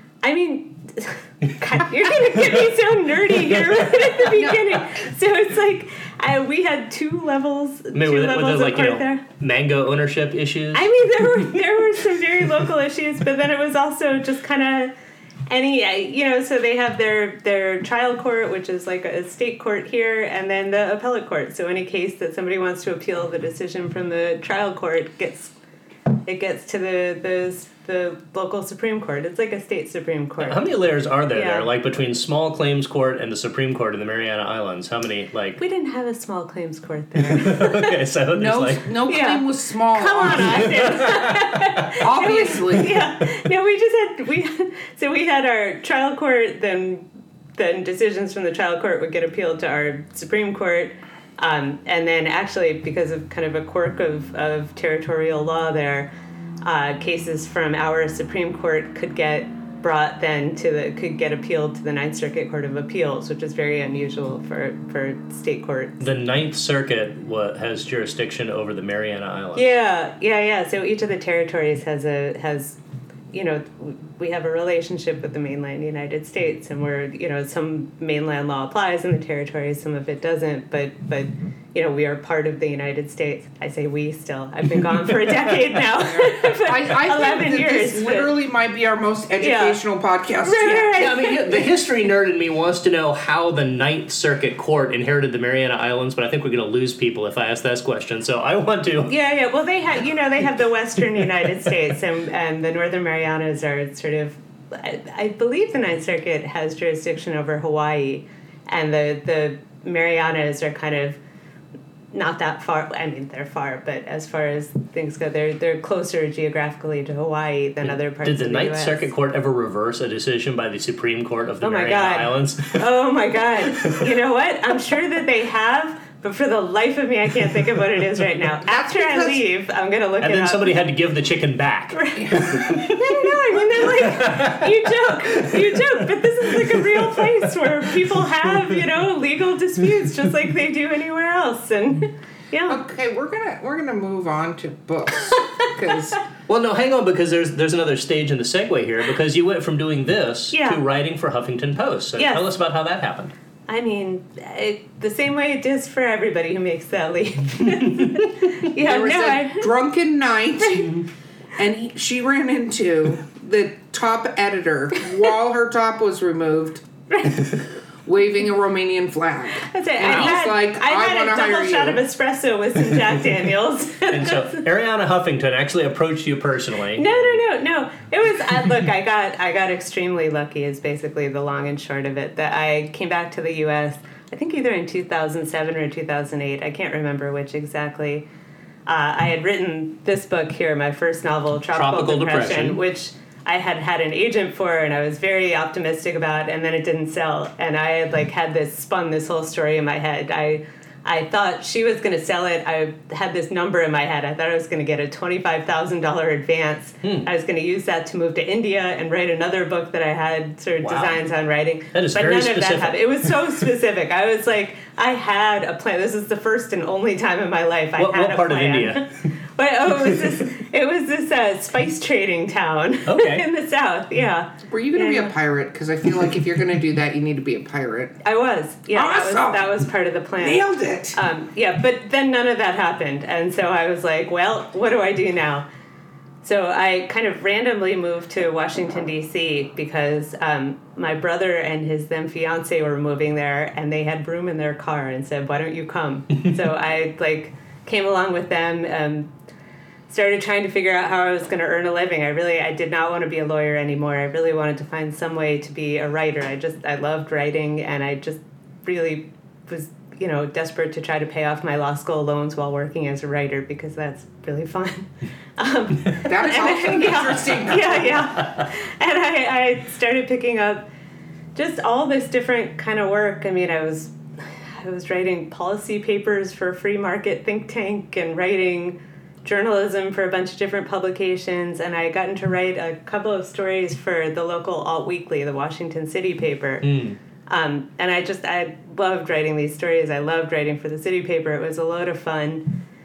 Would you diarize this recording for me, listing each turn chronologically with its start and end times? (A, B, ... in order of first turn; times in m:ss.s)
0:00.2-0:09.2 A
0:04.3-0:04.8 B
0:07.9-0:10.9 C
0:10.7-0:14.9 A
0:15.5-0:25.5 A
0:26.2-0:30.6 A
0:30.4-0:35.6 C
0:31.3-0:31.7 A
0:35.6-0:38.0 A
0:37.3-0:38.9 C
0:38.3-0:40.7 B
0:39.0-0:56.1 A
0:40.2-0:41.5 C
0:42.0-0:43.0 B
0:56.6-1:06.0 A
1:06.0-1:09.7 C
1:09.6-1:12.8 A
1:13.3-1:28.3 A
1:26.1-1:31.1 B
1:29.4-1:29.8 A
1:30.4-1:31.7 A
1:30.9-1:39.1 C
1:39.0-1:51.2 A
1:52.1-1:59.1 A
1:57.8-2:02.8 C
2:01.6-2:10.8 A
2:08.6-2:09.4 B
2:10.2-2:13.1 C
2:11.9-2:22.8 A
2:12.2-2:12.8 B
2:13.8-2:14.7 C
2:15.3-2:15.9 C
2:22.7-2:26.2 B
2:25.3-2:26.1 A
2:26.5-2:33.3 C
2:30.5-2:30.8 A
2:32.2-2:32.4 A
2:33.7-2:39.7 A
2:38.8-2:41.0 B
2:41.6-2:46.9 B
2:47.1-2:47.5 A
2:48.0-2:52.0 B
2:49.5-2:54.6 A
2:50.1-2:50.4 C
2:54.1-2:57.4 C
2:57.0-3:08.2 A
3:08.9-3:45.3 A
3:11.7-3:12.8 C
3:30.8-3:31.2 C
3:31.9-3:33.3 C
3:38.0-3:39.1 C
3:43.1-3:43.4 C
3:44.6-3:48.2 B
3:48.2-3:55.6 A
3:48.9-3:49.8 B
3:50.4-3:51.2 B
3:56.4-4:09.3 A
4:10.1-4:30.8 A
4:26.2-4:28.2 B
4:31.5-4:46.9 A
4:46.8-4:47.2 C
4:47.5-4:52.7 A